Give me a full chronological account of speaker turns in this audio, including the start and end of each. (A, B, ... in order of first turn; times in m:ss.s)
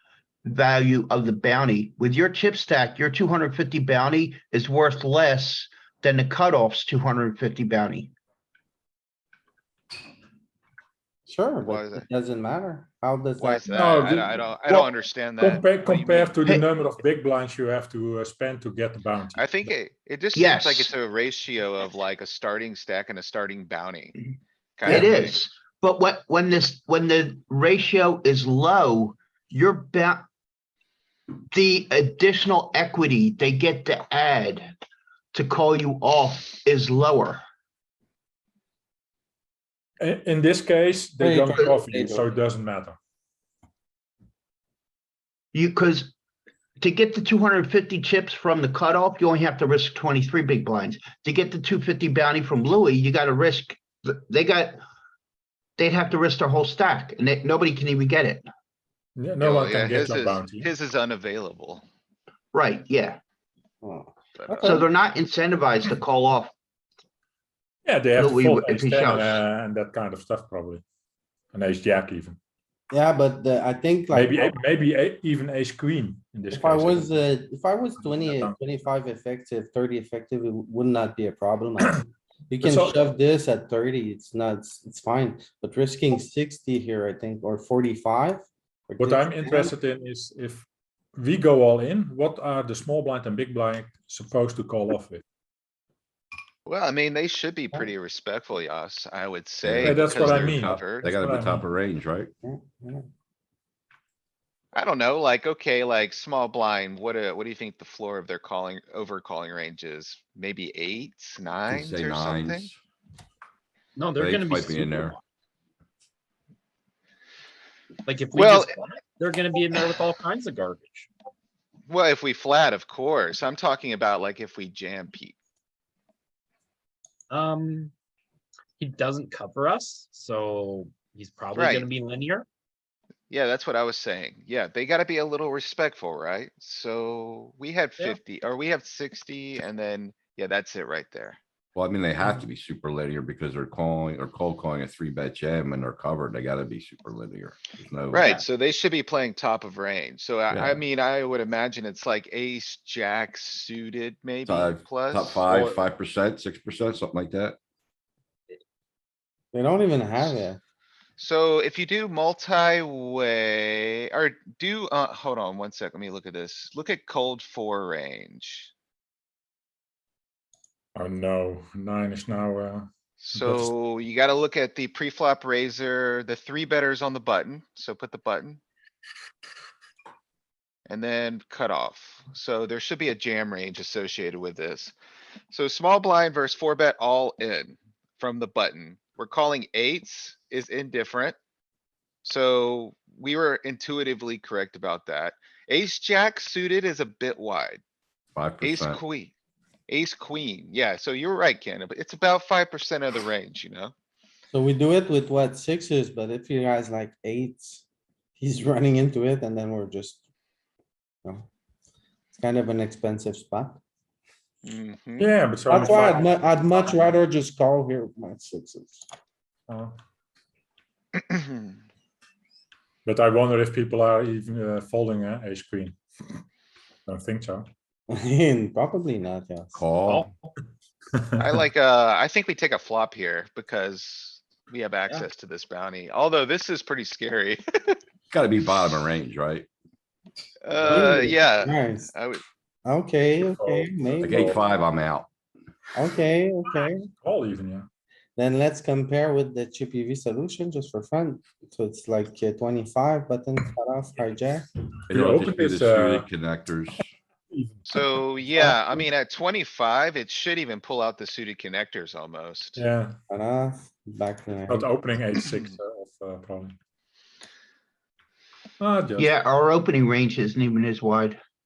0:00.4-0:08.1 A
0:11.2-0:13.8 B
0:11.6-0:12.0 C
0:13.4-0:16.4 C
0:13.7-0:14.4 D
0:15.4-0:19.4 D
0:19.4-0:24.2 C
0:20.3-0:20.9 A
0:24.8-0:25.4 C
0:24.8-0:30.2 A
0:31.5-0:34.7 A
0:35.3-0:37.4 A
0:40.0-0:43.0 D
0:41.2-0:42.3 B
0:45.5-0:46.1 A
0:46.8-0:54.8 A
0:55.8-0:58.4 A
0:59.2-1:00.7 D
0:59.4-1:01.8 C
1:02.5-1:03.2 A
1:03.8-1:04.8 B
1:04.4-1:04.8 C
1:04.6-1:06.5 A
1:07.8-1:10.8 D
1:08.1-1:09.4 A
1:11.5-1:12.4 D
1:12.9-1:14.6 B
1:14.1-1:17.1 D
1:16.5-1:29.7 B
1:18.0-1:18.6 D
1:22.6-1:23.0 D
1:29.0-1:35.2 D
1:36.6-1:41.1 C
1:39.6-1:42.3 E
1:39.8-1:41.6 D
1:42.4-1:43.0 B
1:44.7-1:52.7 C
1:51.7-1:52.8 E
1:54.0-1:55.2 F
1:54.2-1:55.2 E
1:58.0-2:01.1 F
1:58.3-1:58.7 C
2:01.9-2:05.4 C
2:07.3-2:07.9 F
2:08.8-2:12.4 F
2:11.5-2:11.9 C
2:13.3-2:21.4 C
2:21.7-2:28.3 E
2:28.1-2:35.5 C
2:30.5-2:30.8 E
2:34.5-2:37.6 E
2:39.5-2:40.6 B
2:41.2-2:48.7 C
2:50.9-2:53.7 D
2:53.2-2:58.6 C
3:00.9-3:04.9 C
3:05.5-3:11.4 C
3:12.2-3:17.8 C
3:18.3-3:19.0 E
3:18.6-3:19.3 C
3:19.9-3:23.9 C
3:24.5-3:27.8 B
3:28.4-3:30.2 B
3:32.3-3:33.8 B
3:34.6-3:35.3 C
3:35.2-3:36.3 D
3:35.7-3:39.0 B
3:39.7-3:40.0 D
3:41.3-3:41.7 C
3:43.0-3:46.4 D
3:47.1-3:47.7 D
3:48.1-3:49.8 B
3:49.7-3:50.3 E
3:50.0-3:50.5 F
3:51.2-3:51.5 D
3:51.4-3:58.0 C
3:58.3-3:59.7 E
4:00.6-4:02.4 C
4:00.8-4:02.1 B
4:02.8-4:04.5 B
4:03.4-4:04.6 D
4:04.2-4:05.3 E
4:05.9-4:07.1 B
4:07.1-4:07.9 D
4:08.4-4:14.7 B
4:15.1-4:17.0 E
4:15.1-4:16.2 D
4:17.5-4:17.8 D
4:17.8-4:22.8 C
4:18.6-4:19.0 B
4:22.8-4:23.2 D
4:23.3-4:24.9 B
4:24.7-4:26.8 D
4:25.4-4:25.7 C
4:28.8-4:29.3 D
4:29.2-4:31.4 A